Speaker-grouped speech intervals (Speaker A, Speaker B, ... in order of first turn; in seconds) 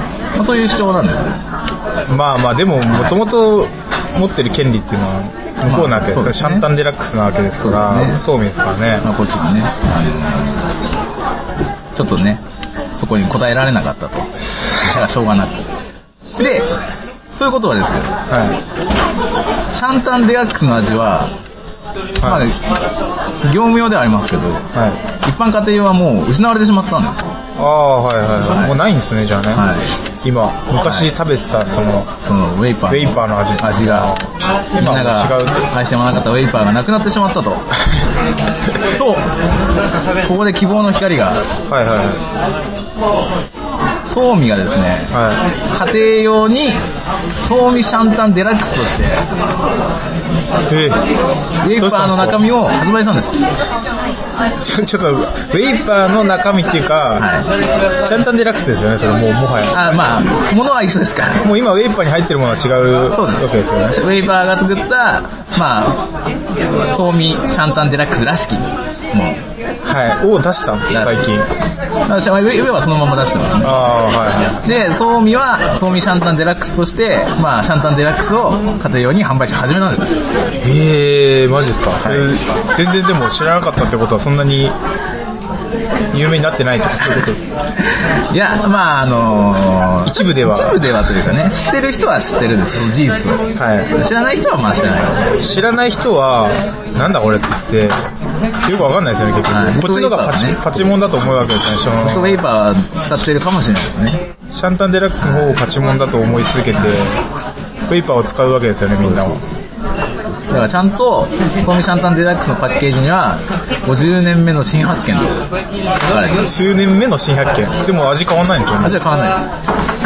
Speaker A: 0.3-1.4, 5.7-6.7, 7.6-8.2, 9.0-10.7, 11.9-12.4, 12.9-15.7, 16.4-16.7, 17.4-18.1, 19.7-21.3, 22.2-22.6, 23.4-24.7, 25.2-27.3, 29.5-29.9, 30.8-31.1, 32.2-34.1, 34.8-37.7, 38.8-39.3, 40.2-41.4, 44.0-45.2, 45.7-46.8, 47.4-49.2, 51.6-53.4, 57.2-57.5, 59.7-61.5, 63.1-66.0, 66.9-69.4, 70.9-71.3, 72.1-73.9, 74.6-80.1, 87.8-95.5, 99.5-101.0, 102.0-104.2, 105.2-105.6, 108.9-109.7, 110.5-115.4, 116.1-116.5, 118.8-119.5
Speaker B: 2.1-9.1, 18.3-18.6, 22.2-22.5, 24.7-25.0, 27.6-29.7, 30.2-32.1, 32.9-35.8, 41.7-42.2, 45.1-45.4, 50.7-51.0, 51.8-52.4, 54.6-57.3, 58.0-59.9, 61.4-64.0, 69.8-71.5, 73.6-74.6, 80.6-84.8, 86.1-87.4, 90.0-91.3, 93.5-93.9, 95.4-98.0, 98.6-102.4, 104.5-107.2, 107.9-109.4, 116.4-119.0